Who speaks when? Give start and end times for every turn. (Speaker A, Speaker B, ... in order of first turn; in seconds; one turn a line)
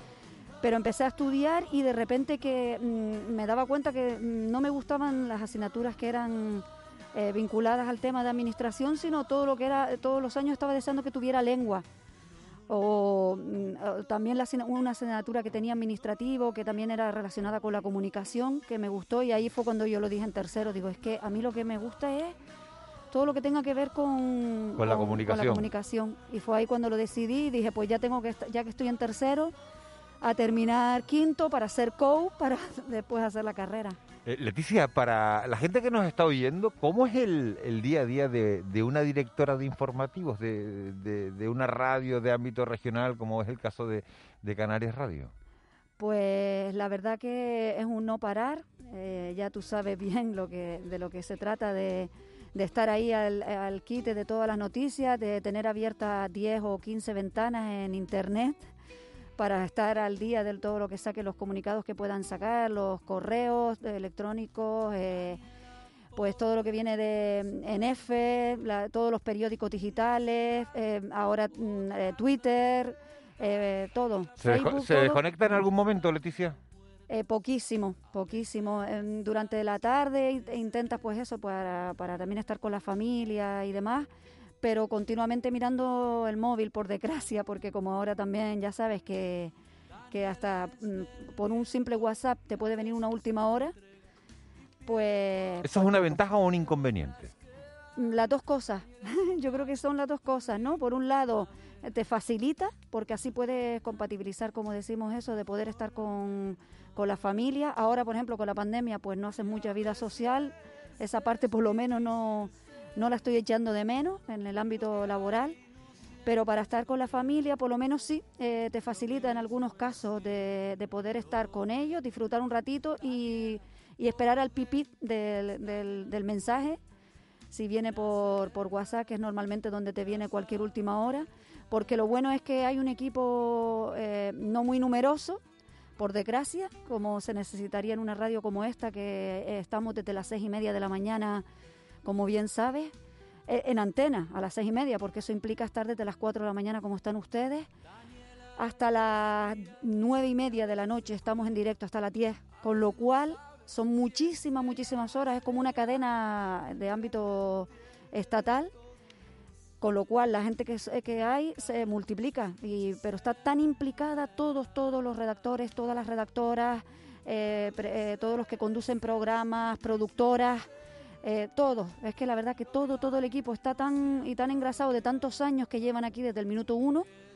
Speaker A: 0.6-11.8
Speaker A: 12.7-22.4
Speaker A: 23.1-29.5
Speaker B: 24.8-25.7
Speaker A: 30.2-34.0
Speaker B: 34.2-45.3
Speaker A: 46.0-58.6
Speaker A: 59.4-65.4
Speaker A: 66.1-75.2
Speaker B: 74.4-76.6
Speaker A: 77.1-84.1
Speaker A: 84.6-89.5
Speaker A: 90.1-93.7
Speaker A: 94.8-96.2
Speaker B: 95.6-97.3
Speaker A: 98.0-115.5
Speaker A: 116.2-126.8
Speaker A: 127.5-135.4
Speaker A: 136.0-141.4
Speaker A: 142.0-142.9
Speaker A: 143.5-147.7
Speaker A: 148.6-158.7
Speaker A: 159.8-170.7
Speaker A: 171.2-177.1